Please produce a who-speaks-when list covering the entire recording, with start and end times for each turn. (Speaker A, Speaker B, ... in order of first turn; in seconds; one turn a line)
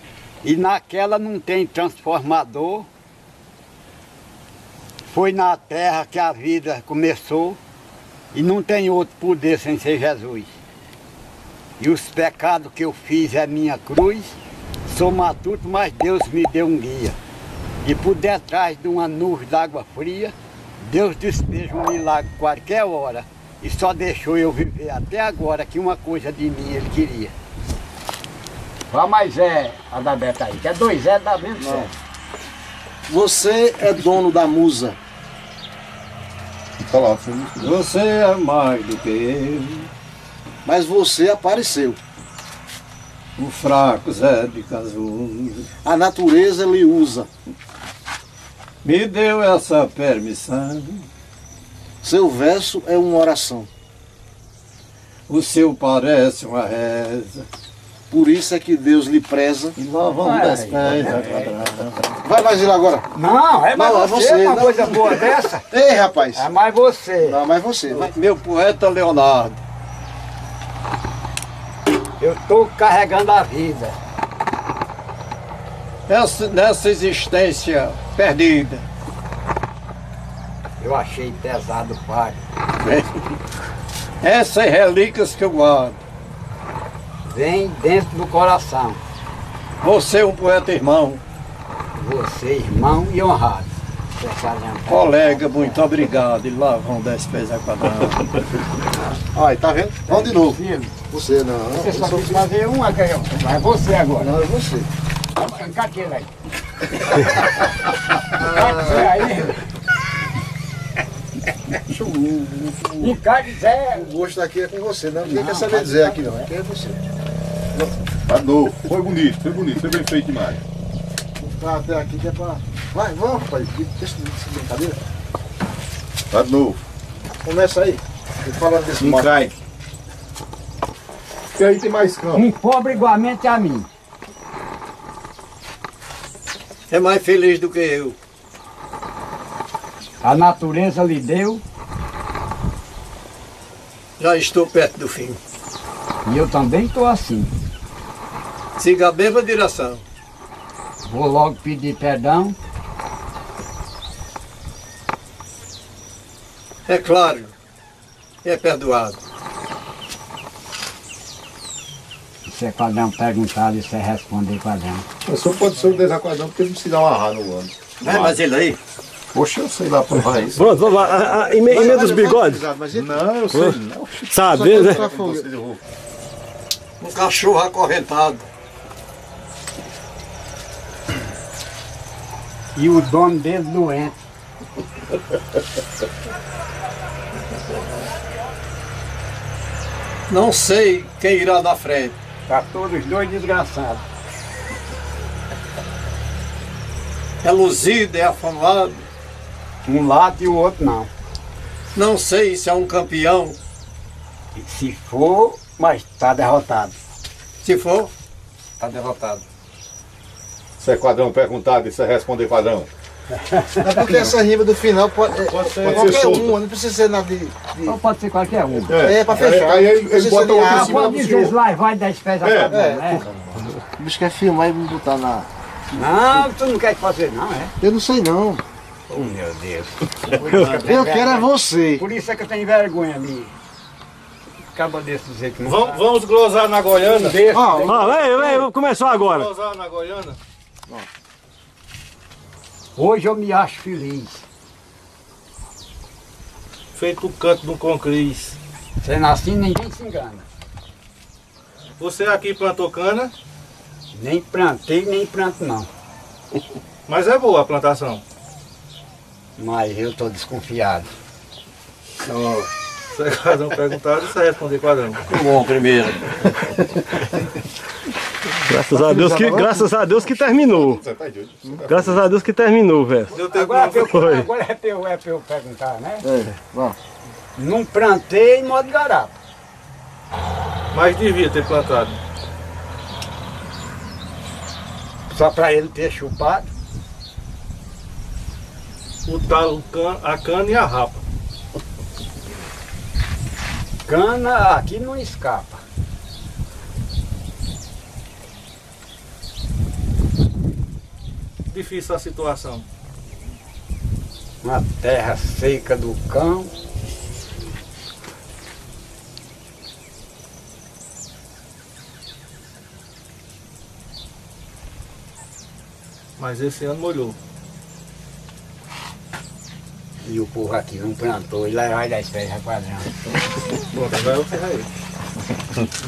Speaker A: 0.4-2.9
Speaker A: 5.1-7.6
Speaker A: 8.3-10.5
Speaker A: 11.8-14.3
Speaker A: 14.9-17.2
Speaker A: 17.8-27.3
Speaker A: 28.9-31.9
Speaker B: 31.6-31.9
Speaker B: 33.1-35.0
Speaker C: 36.8-37.7
Speaker D: 37.6-39.9
Speaker B: 40.6-42.0
Speaker D: 43.4-45.7
Speaker B: 45.8-47.3
Speaker D: 48.8-51.1
Speaker B: 52.0-53.7
Speaker D: 55.3-57.5
Speaker B: 58.1-63.1
Speaker D: 59.8-61.6
Speaker A: 60.2-61.5
Speaker A: 63.1-65.7
Speaker B: 63.8-66.5
Speaker A: 66.3-67.4
Speaker B: 67.2-68.1
Speaker D: 67.9-69.6
Speaker A: 72.2-74.0
Speaker D: 76.1-78.8
Speaker A: 80.8-82.4
Speaker D: 82.8-83.3
Speaker D: 84.2-86.0
Speaker A: 87.3-89.0
Speaker D: 89.8-91.2
Speaker A: 92.0-95.8
Speaker D: 94.9-98.3
Speaker B: 99.3-102.5
Speaker A: 100.1-100.9
Speaker A: 101.7-104.4
Speaker B: 104.2-104.9
Speaker A: 105.4-106.3
Speaker B: 108.3-109.2
Speaker A: 108.4-109.7
Speaker B: 111.9-113.2
Speaker A: 113.0-114.1
Speaker B: 113.9-117.0
Speaker A: 115.2-116.2
Speaker C: 118.3-120.6
Speaker B: 121.4-125.1
Speaker C: 126.3-126.8
Speaker B: 127.4-129.3
Speaker C: 129.0-129.6
Speaker C: 131.6-132.5
Speaker A: 132.3-133.9
Speaker D: 136.9-138.2
Speaker A: 140.2-141.6
Speaker D: 144.2-145.4
Speaker A: 146.2-147.5
Speaker D: 148.8-150.0
Speaker A: 151.1-152.6
Speaker D: 156.9-157.5
Speaker D: 158.4-159.2
Speaker A: 162.5-165.1
Speaker C: 165.2-168.4
Speaker D: 168.0-168.8
Speaker C: 169.3-171.2
Speaker E: 170.6-172.6
Speaker B: 171.6-173.3
Speaker C: 171.7-172.1
Speaker C: 172.9-175.8
Speaker E: 174.3-175.1
Speaker B: 174.4-175.5
Speaker D: 177.0-178.5
Speaker A: 182.8-184.2
Speaker D: 190.3-192.2
Speaker A: 192.5-194.0
Speaker D: 197.4-199.0
Speaker A: 199.8-201.1
Speaker D: 201.9-203.6
Speaker A: 204.6-207.0
Speaker D: 207.6-208.1
Speaker A: 208.8-209.4
Speaker C: 210.8-212.9
Speaker A: 213.5-213.9
Speaker B: 213.8-218.0
Speaker C: 215.5-216.6
Speaker A: 217.9-219.0
Speaker C: 218.9-221.6
Speaker B: 218.9-221.5
Speaker A: 220.6-223.2
Speaker C: 222.4-222.8
Speaker B: 222.7-225.5
Speaker A: 225.9-227.7
Speaker B: 227.8-228.6
Speaker A: 229.1-233.5
Speaker E: 230.5-230.8
Speaker B: 230.5-232.1
Speaker A: 234.7-236.0
Speaker F: 235.7-237.5
Speaker A: 237.0-238.6
Speaker B: 237.5-238.2
Speaker E: 237.8-239.5
Speaker F: 238.4-240.4
Speaker A: 243.0-244.4
Speaker F: 246.9-248.6
Speaker A: 249.0-250.5
Speaker F: 252.0-253.3
Speaker A: 254.1-255.9
Speaker F: 257.1-258.2
Speaker A: 259.6-261.1
Speaker D: 262.3-262.7
Speaker F: 263.1-265.2
Speaker D: 265.3-267.2
Speaker E: 268.7-271.0
Speaker B: 268.9-269.9
Speaker C: 270.2-272.3
Speaker E: 271.9-273.4
Speaker A: 273.3-276.3
Speaker F: 273.3-274.3
Speaker E: 274.0-274.5
Speaker B: 276.2-277.0
Speaker A: 277.6-279.4
Speaker F: 280.9-282.2
Speaker A: 285.3-286.7
Speaker F: 289.3-291.2
Speaker A: 294.1-295.8
Speaker F: 301.7-302.9
Speaker A: 304.6-306.7
Speaker F: 316.4-317.4
Speaker A: 320.3-323.1
Speaker F: 323.9-324.9